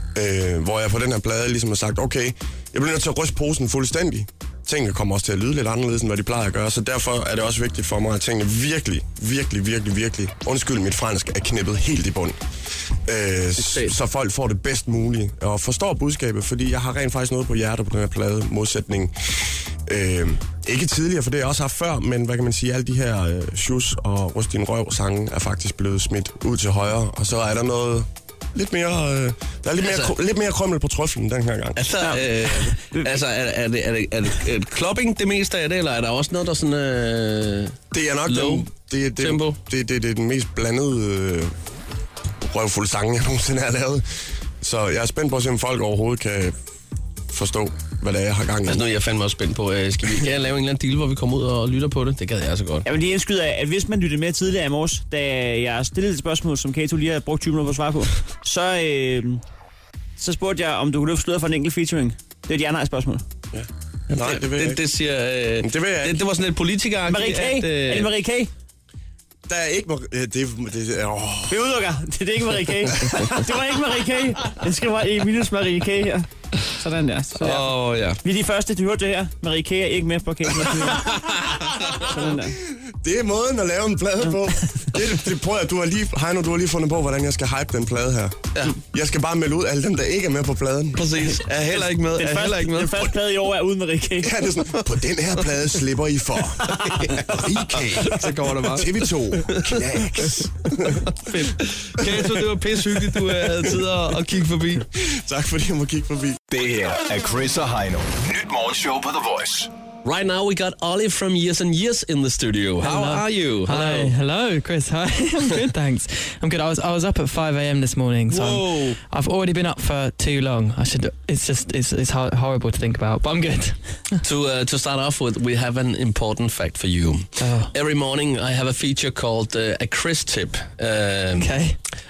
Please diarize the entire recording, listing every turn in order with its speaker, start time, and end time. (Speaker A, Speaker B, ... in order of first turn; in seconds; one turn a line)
Speaker A: 0.1-12.4
Speaker A: 13.1-31.8
Speaker B: 13.6-13.9
Speaker B: 29.8-30.1
Speaker B: 31.8-39.6
Speaker C: 32.0-33.2
Speaker A: 37.9-41.5
Speaker A: 42.4-44.0
Speaker A: 44.6-46.5
Speaker A: 47.3-48.9
Speaker B: 48.7-52.9
Speaker C: 52.9-59.4
Speaker C: 60.2-63.2
Speaker A: 63.5-64.8
Speaker B: 64.1-68.1
Speaker A: 65.6-66.2
Speaker C: 67.1-68.5
Speaker A: 69.5-71.6
Speaker C: 71.5-77.7
Speaker B: 77.4-78.2
Speaker C: 78.2-81.2
Speaker C: 82.0-82.6
Speaker A: 82.7-91.2
Speaker B: 91.0-93.1
Speaker C: 92.1-94.5
Speaker A: 94.2-101.1
Speaker B: 97.0-100.0
Speaker B: 100.8-104.9
Speaker A: 102.0-103.8
Speaker A: 104.9-106.4
Speaker D: 106.5-109.7
Speaker B: 110.0-114.2
Speaker E: 112.8-124.0
Speaker B: 118.3-119.0
Speaker B: 124.2-131.5
Speaker E: 127.4-127.7
Speaker E: 131.4-131.8